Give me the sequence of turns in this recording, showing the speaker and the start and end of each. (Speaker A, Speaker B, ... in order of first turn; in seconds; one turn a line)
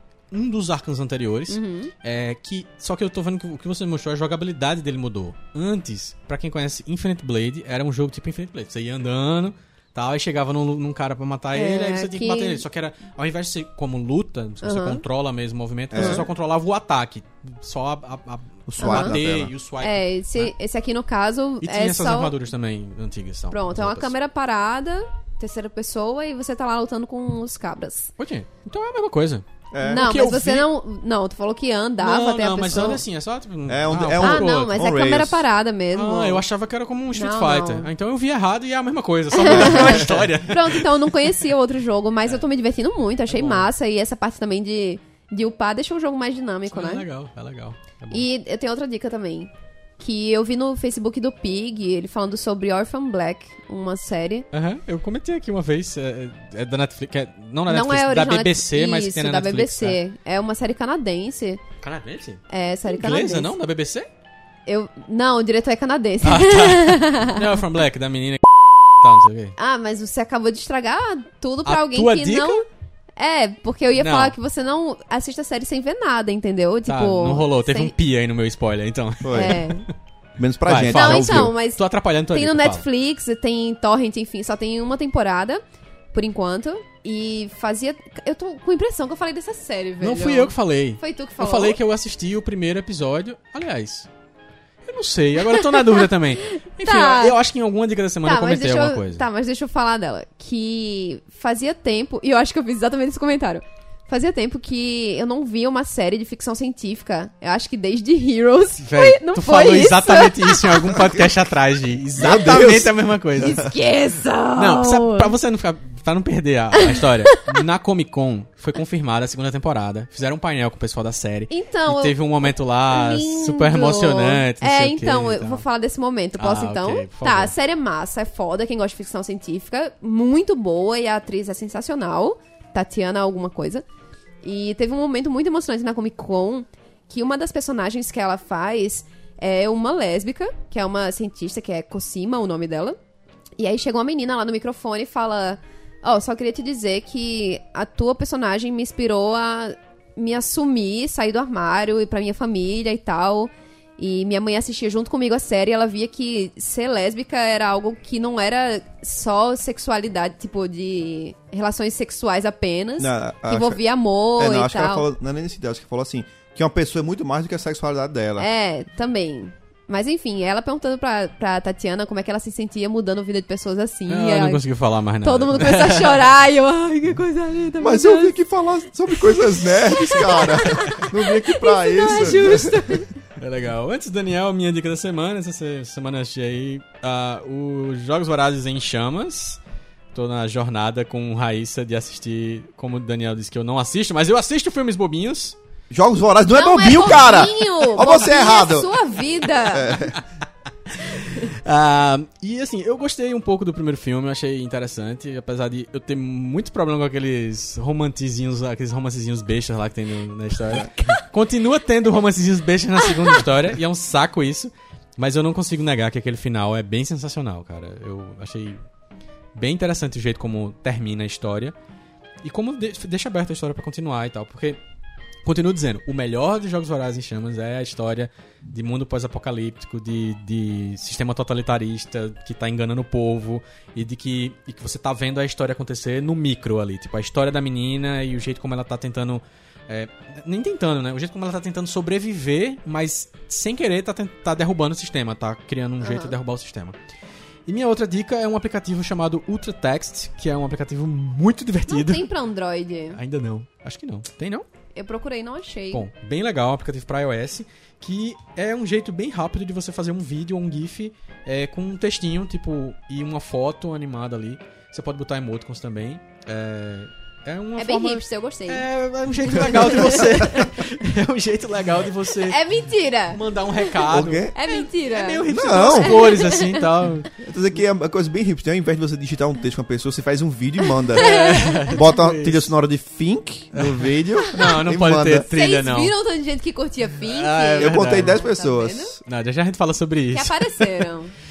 Speaker A: 0.3-20.5
Speaker B: 1.5-1.9
Speaker B: 11.5-12.6
Speaker B: 14.6-15.0
Speaker C: 15.9-16.3
Speaker B: 15.9-16.2
Speaker C: 18.7-19.5
Speaker B: 18.8-19.1
Speaker B: 19.8-22.3
Speaker A: 21.6-24.1
Speaker B: 23.5-28.1
Speaker A: 28.2-30.7
Speaker C: 29.7-30.1
Speaker B: 29.9-33.0
Speaker A: 32.0-34.8
Speaker C: 33.7-35.4
Speaker B: 34.2-36.4
Speaker A: 35.9-40.9
Speaker B: 37.1-37.9
Speaker B: 39.3-47.0
Speaker A: 43.3-43.7
Speaker A: 46.7-48.2
Speaker B: 48.1-54.5
Speaker A: 54.5-60.0
Speaker B: 57.7-61.6
Speaker A: 61.8-64.1
Speaker B: 62.5-63.5
Speaker B: 64.7-67.4
Speaker A: 66.2-69.5
Speaker B: 69.6-72.6
Speaker A: 71.6-72.6
Speaker B: 73.2-77.9
Speaker A: 74.0-74.3
Speaker A: 76.9-79.9
Speaker C: 79.2-79.6
Speaker B: 79.3-79.8
Speaker C: 80.4-81.5
Speaker A: 80.7-82.8
Speaker B: 80.9-81.8
Speaker B: 82.3-91.8
Speaker A: 90.0-94.1
Speaker A: 94.8-99.2
Speaker B: 95.5-97.3
Speaker B: 98.2-111.0
Speaker A: 108.8-113.6
Speaker C: 112.2-112.9
Speaker B: 113.4-115.3
Speaker A: 114.5-125.6
Speaker B: 121.5-133.8
Speaker A: 126.4-127.5
Speaker B: 134.4-143.0
Speaker B: 143.6-165.1
Speaker C: 163.0-163.8
Speaker C: 164.4-168.5
Speaker B: 168.4-174.6
Speaker A: 174.1-176.3
Speaker B: 175.2-178.4
Speaker C: 177.8-182.7
Speaker B: 179.1-183.1
Speaker A: 182.1-182.6
Speaker A: 183.4-189.6
Speaker A: 190.1-195.6
Speaker C: 195.9-199.0
Speaker B: 196.5-200.1
Speaker C: 199.7-200.1
Speaker A: 200.9-218.8
Speaker A: 219.5-221.7
Speaker A: 222.4-224.8
Speaker A: 225.4-246.9
Speaker B: 246.0-246.3
Speaker A: 247.7-252.3
Speaker B: 251.9-253.2
Speaker A: 253.1-254.7
Speaker B: 254.9-256.1
Speaker A: 255.9-272.6
Speaker B: 267.8-268.8
Speaker B: 269.6-270.6
Speaker C: 269.7-270.7
Speaker B: 272.5-273.4
Speaker A: 273.3-277.3
Speaker C: 274.1-274.5
Speaker B: 274.5-276.8
Speaker C: 275.5-276.3
Speaker C: 277.4-281.3
Speaker B: 281.1-281.9
Speaker A: 281.1-282.7
Speaker C: 281.9-285.5
Speaker A: 283.7-286.1
Speaker B: 285.5-289.1
Speaker A: 287.2-288.4
Speaker C: 287.8-289.2
Speaker A: 289.2-291.1
Speaker B: 290.3-291.3